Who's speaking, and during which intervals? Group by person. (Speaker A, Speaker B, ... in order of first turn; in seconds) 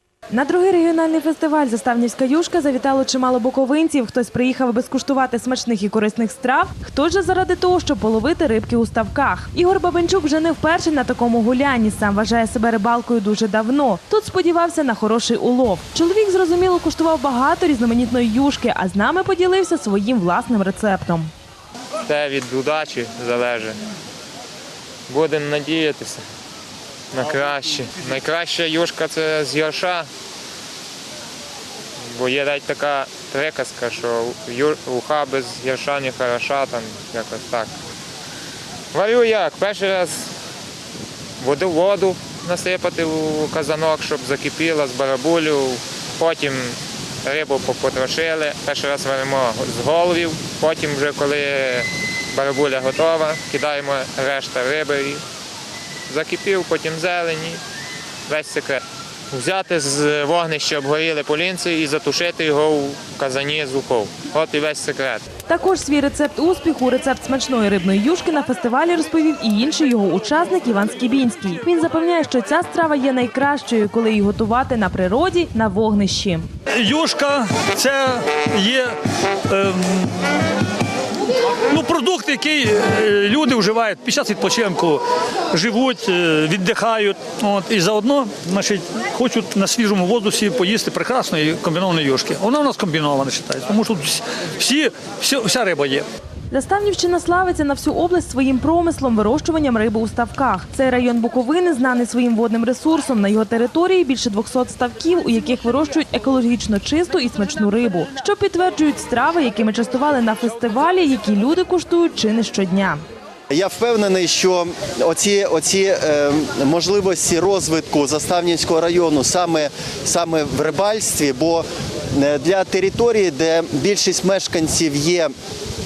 Speaker A: 0.3-21.3, 65.5-76.4, 96.5-113.0
Speaker B: 22.1-23.8, 25.1-26.2, 27.1-30.1, 32.1-37.7, 38.9-40.3, 41.4-55.2, 56.1-57.6, 58.3-65.2
Speaker C: 76.7-78.9, 79.5-80.2, 81.7-85.0, 85.5-96.0
Speaker D: 113.5-125.3